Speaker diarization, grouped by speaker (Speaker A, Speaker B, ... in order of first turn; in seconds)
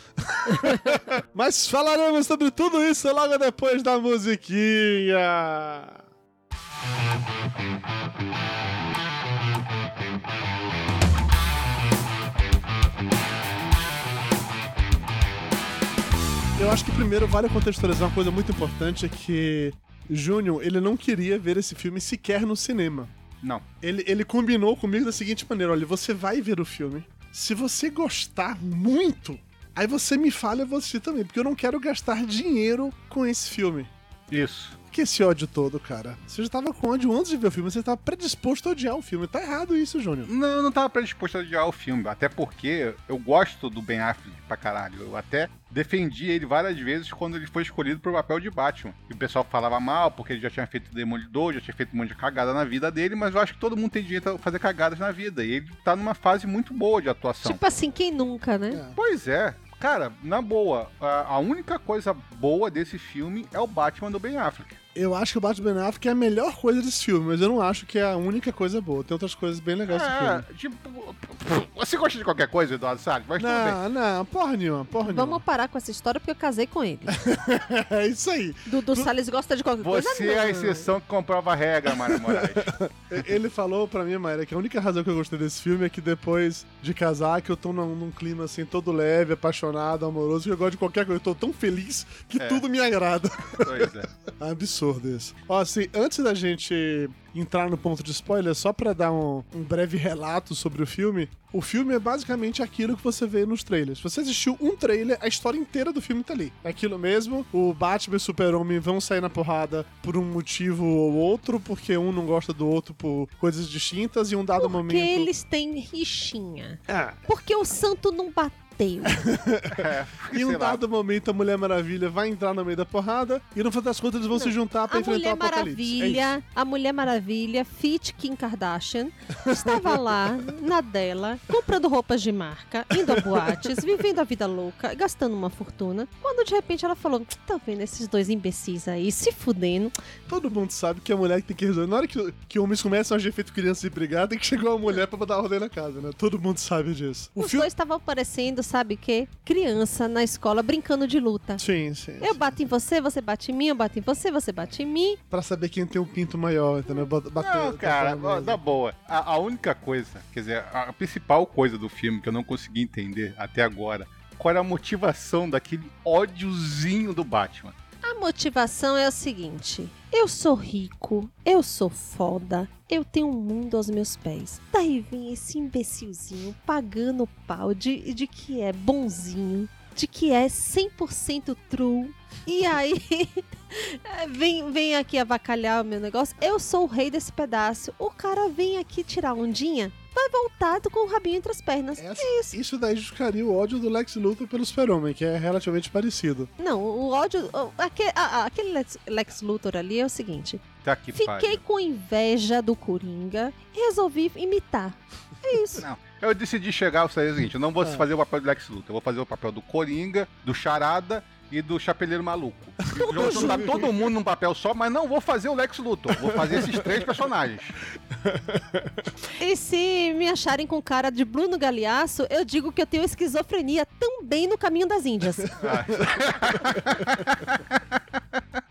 Speaker A: 0.2-6.0, 16.6-23.1, 23.8-33.9, 34.9-40.3, 58.7-59.0, 65.0-70.4, 73.4-75.4, 77.1-79.1, 81.9-115.3, 116.9-117.2, 119.1-126.3, 133.0-133.8, 140.3-147.7, 151.6-152.4, 155.3-158.6, 192.0-196.5, 213.0-213.9, 216.1-217.1, 218.1-219.1, 225.6-227.3
Speaker B: 34.3-34.8, 40.3-57.6, 59.0-64.8, 69.9-73.8, 79.8-82.8, 92.4-92.7, 93.6-94.1, 119.7-120.8, 157.4-167.7, 200.8-201.6, 205.8-217.8, 225.6-228.4
Speaker C: 57.4-58.8, 75.0-77.2, 78.7-80.8, 114.6-119.2, 124.3-139.9, 147.4-151.6, 152.2-155.2, 168.0-192.6, 196.6-200.6, 201.2-205.8, 212.9-213.9, 219.4-225.6